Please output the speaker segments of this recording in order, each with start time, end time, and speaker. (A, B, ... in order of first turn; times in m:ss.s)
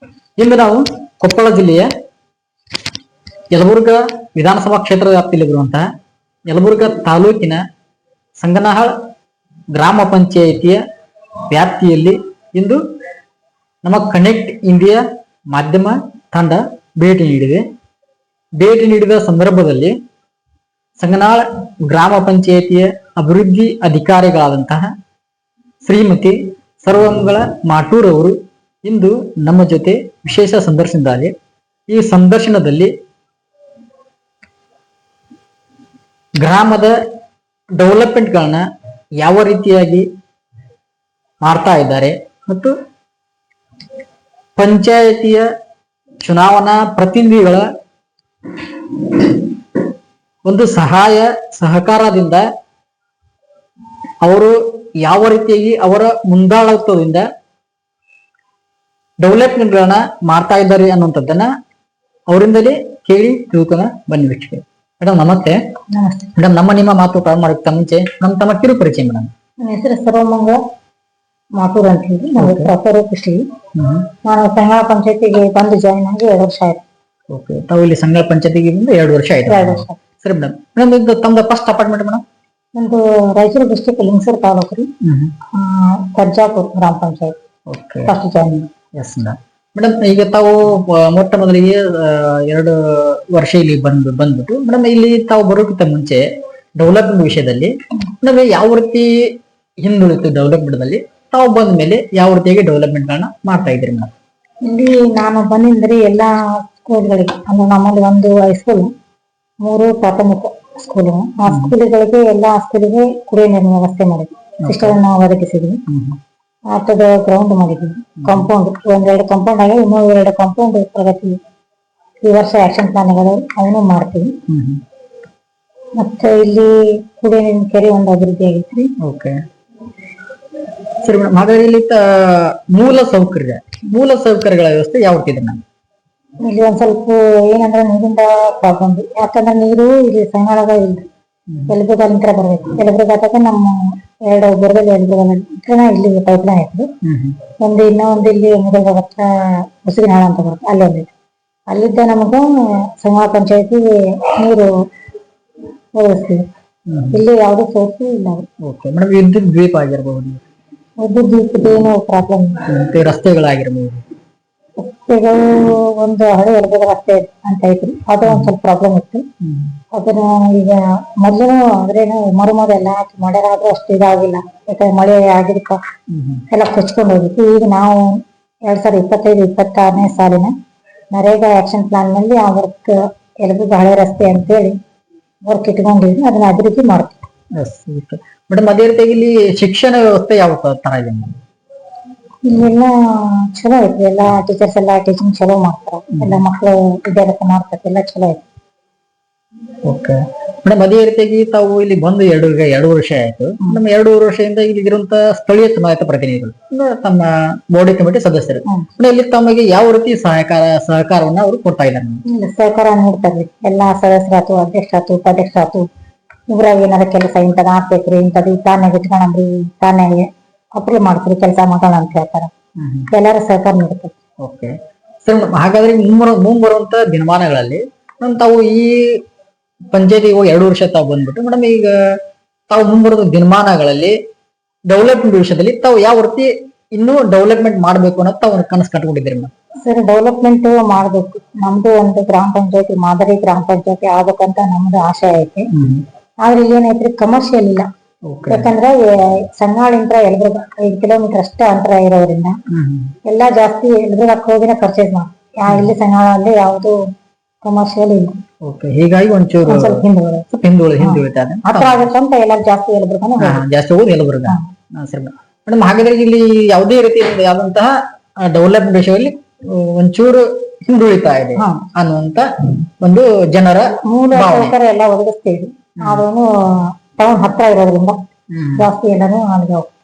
0:00.4-0:01.9 A
0:03.5-0:05.8 A
0:06.5-0:07.6 A
0:08.4-0:08.9 A
0:09.7-0:10.8 A
0:11.5-0:12.8 A
0:13.8-0:17.6 A
0:18.6-0:19.9 A
0:21.0-0:24.9 A
0:25.8-0:31.3 A
0:31.9-0:32.9 A
0:36.4-0:37.0 A
0:37.8-0:38.6 A
0:39.2-0:40.0 A
0:41.4-0:42.7 A
0:44.6-0:45.5 A
0:46.2-0:47.6 A
0:50.4-0:52.4 A
0:54.2-0:57.2 A
0:59.2-1:01.5 A
1:02.3-1:05.6 A
1:05.9-1:06.3 B
1:06.4-1:09.3 A
1:09.6-1:10.6 B
1:11.6-1:13.4 B
1:12.4-1:12.7 A
1:13.8-1:14.1 A
1:14.2-1:16.8 B
1:17.3-1:22.2 A
1:19.5-1:20.0 B
1:22.8-1:24.9 B
1:25.0-1:25.3 A
1:25.5-1:27.4 B
1:27.7-1:28.1 A
1:28.1-1:28.7 B
1:29.0-1:36.3 A
1:36.8-1:39.1 A
1:39.8-1:44.1 A
1:44.6-1:48.9 B
1:49.6-1:55.8 B
1:54.6-1:55.0 A
1:55.9-1:56.2 A
1:56.7-2:01.4 B
1:58.2-1:58.5 A
2:02.2-2:04.4 B
2:04.5-2:04.8 A
2:06.0-2:08.9 B
2:09.0-2:09.4 A
2:11.0-2:15.6 A
2:16.4-2:21.1 B
2:21.7-2:26.9 B
2:27.0-2:27.4 A
2:27.6-2:31.1 B
2:31.7-2:34.7 B
2:36.0-2:36.4 B
2:36.9-2:37.2 A
2:37.1-2:38.5 B
2:38.6-2:40.4 A
2:41.0-2:42.6 B
2:42.7-2:44.0 A
2:44.8-2:49.2 B
2:48.3-2:48.5 A
2:49.4-2:49.7 A
2:49.9-2:55.8 B
2:56.1-2:56.4 A
2:56.5-3:00.5 B
3:01.1-3:04.8 B
3:05.5-3:07.2 B
3:07.6-3:11.3 A
3:12.5-3:18.4 B
3:16.1-3:16.4 A
3:19.8-3:32.2 A
3:32.3-3:35.9 B
3:36.5-3:42.5 B
3:42.8-3:43.1 A
3:43.1-3:44.1 B
3:44.4-3:49.2 A
3:49.9-3:52.2 A
3:52.7-3:54.2 A
3:54.9-3:59.5 A
3:59.8-4:05.7 B
4:05.7-4:06.0 A
4:06.4-4:07.9 B
4:08.3-4:08.7 A
4:08.5-4:12.6 B
4:12.7-4:13.1 A
4:13.3-4:17.0 B
4:17.6-4:18.4 B
4:18.7-4:19.9 A
4:19.7-4:20.5 B
4:20.5-4:22.1 A
4:21.0-4:23.6 B
4:23.4-4:34.7 A
4:31.6-4:31.8 B
4:34.1-4:38.2 B
4:38.5-4:38.9 A
4:38.8-4:39.9 B